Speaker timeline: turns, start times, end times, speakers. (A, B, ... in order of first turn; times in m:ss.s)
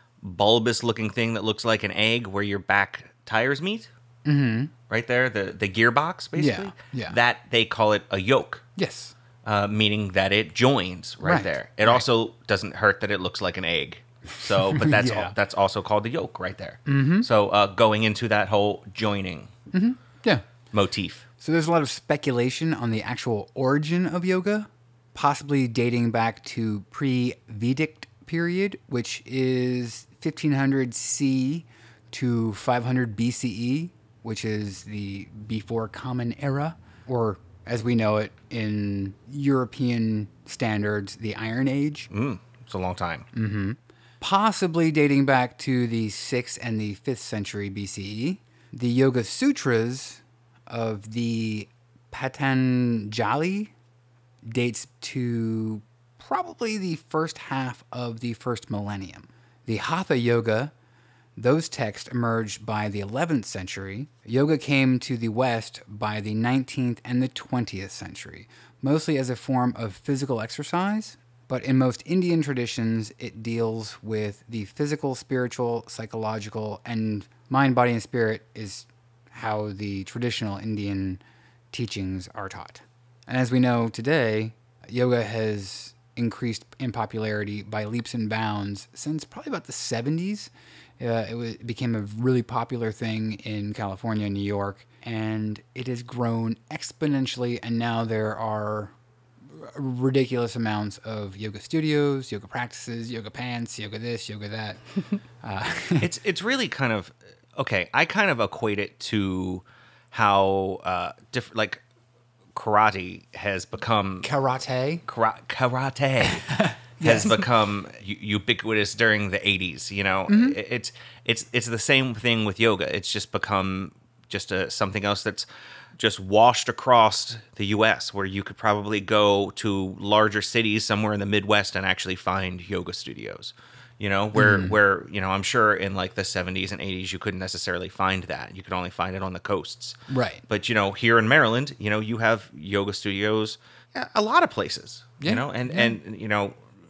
0:00.2-0:03.9 A
0:04.2-0:04.7 B
0:04.9-0:08.6 A
0:06.4-0:07.2 B
0:08.8-0:09.2 B
0:09.4-0:19.5 A
0:11.2-0:12.0 B
0:14.7-0:15.4 B
0:16.9-0:17.3 B
0:19.7-0:20.4 B
0:20.7-0:21.2 A
0:21.4-0:42.1 B
0:42.1-0:43.3 A
0:43.3-0:53.7 B
0:54.5-1:00.7 B
1:01.4-1:38.9 B
1:39.5-1:44.8 B
1:45.4-1:46.1 B
1:46.0-1:51.8 A
1:52.5-1:54.3 A
1:54.2-1:55.0 B
1:55.1-2:20.0 A
1:56.2-1:57.5 B
2:00.3-2:00.6 B
2:14.4-2:14.8 B
2:20.1-2:20.4 B
2:20.5-2:26.6 A
2:25.2-2:26.0 B